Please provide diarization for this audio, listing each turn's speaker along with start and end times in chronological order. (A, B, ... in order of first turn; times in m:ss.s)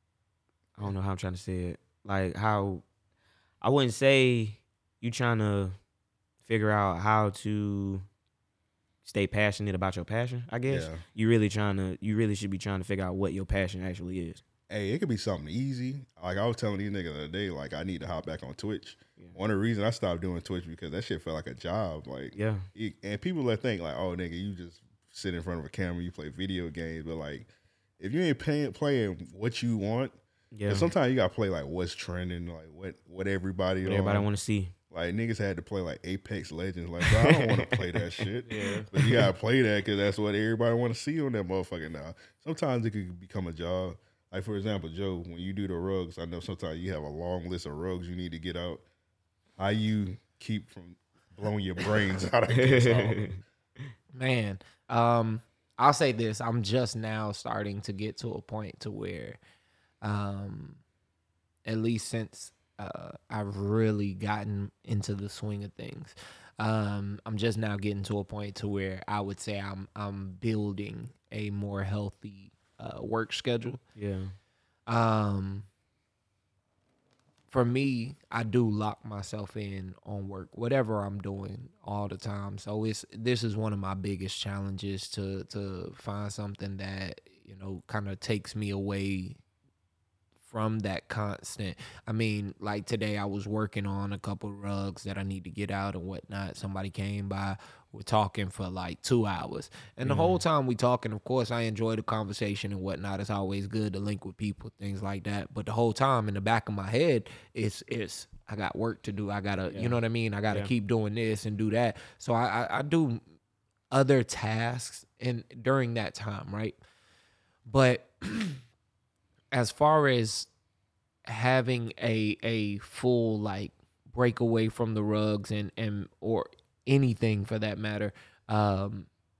0:00.8-0:02.8 A
0:03.6-0:05.8 A
0:06.4-0:08.0 A
0:09.0-0:14.4 A
0:10.7-0:11.0 B
0:14.7-0:30.2 B
0:22.3-0:22.6 A
0:30.5-0:30.9 A
0:30.7-0:34.3 B
0:33.8-0:34.7 A
0:34.9-0:48.8 B
0:37.0-0:37.8 A
0:38.5-0:39.2 A
0:49.6-0:53.4 B
0:52.5-0:53.4 A
0:54.1-0:59.4 C
1:00.0-1:00.8 C
1:01.6-1:13.8 C
1:14.0-1:14.3 A
1:14.9-1:15.6 C
1:17.5-1:29.4 C
1:30.4-1:53.2 C
1:40.0-1:40.4 A
1:49.7-1:50.0 A
1:53.9-1:56.8 C
1:57.7-1:58.6 C
1:59.5-2:00.5 C
2:01.2-2:09.1 C